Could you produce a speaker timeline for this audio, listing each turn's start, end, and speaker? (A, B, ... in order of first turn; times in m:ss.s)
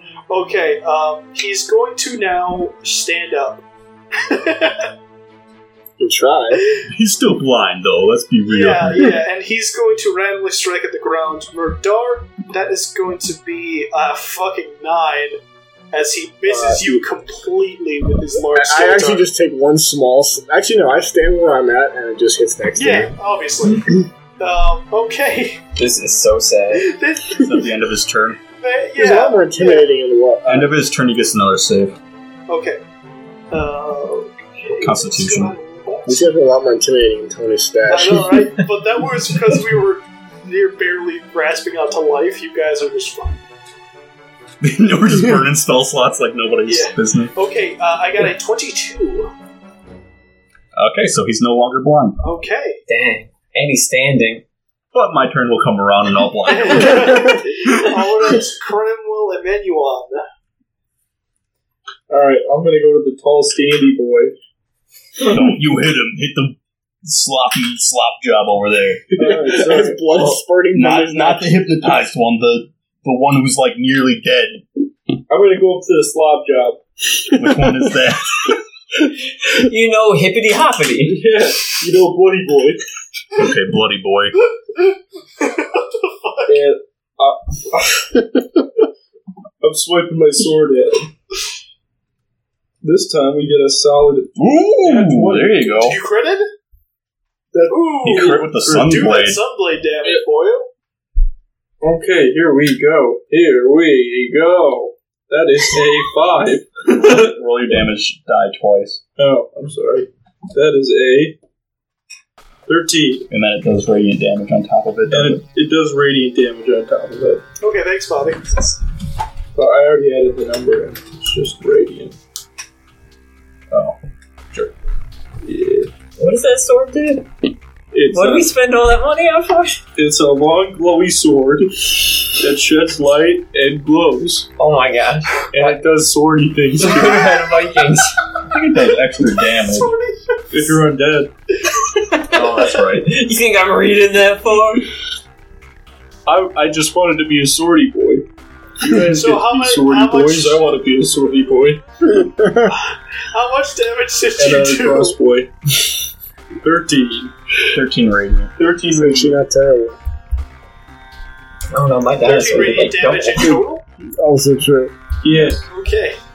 0:00.3-0:03.6 A
0:04.2-0:04.9 A
0:06.0-0:06.6 B
0:06.5-0:06.8 A
0:06.9-0:09.1 C
0:08.5-0:15.4 A
0:15.9-0:19.2 A
0:16.4-0:16.9 B
0:18.3-0:23.2 B
0:22.8-0:25.6 A
0:25.8-0:26.8 D
0:26.8-0:27.4 A
0:27.3-0:28.4 C
0:28.6-0:29.9 A
0:29.0-0:30.7 B
0:30.4-0:32.0 C
0:32.5-0:32.8 A
0:33.5-0:36.3 A
0:34.8-0:35.5 C
0:36.0-0:38.5 B
0:37.9-0:43.4 A
0:44.6-0:47.3 C
0:46.7-0:49.3 A
0:50.7-0:52.2 C
0:52.2-0:52.8 A
0:52.9-0:54.4 D
0:54.9-0:58.4 C
0:56.5-1:00.2 A
1:02.1-1:04.3 E
1:05.2-1:09.1 C
1:09.1-1:10.1 E
1:09.2-1:11.6 B
1:10.7-1:14.6 C
1:15.3-1:16.8 E
1:17.3-1:18.6 C
1:19.5-1:21.2 D
1:21.0-1:22.8 E
1:23.3-1:24.4 C
1:25.4-1:26.6 A
1:26.5-1:28.1 E
1:29.6-1:31.1 E
1:32.8-1:35.7 E
1:34.4-1:36.0 C
1:35.8-1:36.5 A
1:37.5-1:39.1 E
1:37.7-1:40.7 A
1:38.0-1:39.4 C
1:41.8-1:47.3 E
1:46.9-1:49.0 C
1:49.2-1:51.4 E
1:52.6-1:53.2 E
1:53.3-1:55.4 C
1:55.0-1:57.4 E
1:57.6-1:58.8 A
1:59.5-2:02.2 E
2:03.7-2:04.7 C
2:05.4-2:05.9 E
2:06.2-2:07.3 D
2:07.9-2:08.5 E
2:08.1-2:09.8 D
2:10.0-2:14.5 E
2:14.6-2:15.7 D
2:15.5-2:17.3 E
2:16.8-2:18.1 D
2:18.5-2:19.9 C
2:19.6-2:20.8 A
2:20.5-2:21.3 E
2:22.0-2:24.9 D
2:22.3-2:23.2 C
2:26.2-2:28.2 E
2:28.8-2:31.8 E
2:29.0-2:30.6 A
2:32.1-2:32.7 B
2:32.7-2:35.2 A
2:34.4-2:35.5 E
2:36.6-2:37.3 E
2:37.7-2:38.5 C
2:38.6-2:39.4 E
2:38.9-2:40.0 B
2:41.7-2:43.6 D
2:42.2-2:43.8 A
2:44.2-2:44.9 B
2:45.2-2:45.6 E
2:45.3-2:45.6 C
2:45.7-2:46.2 A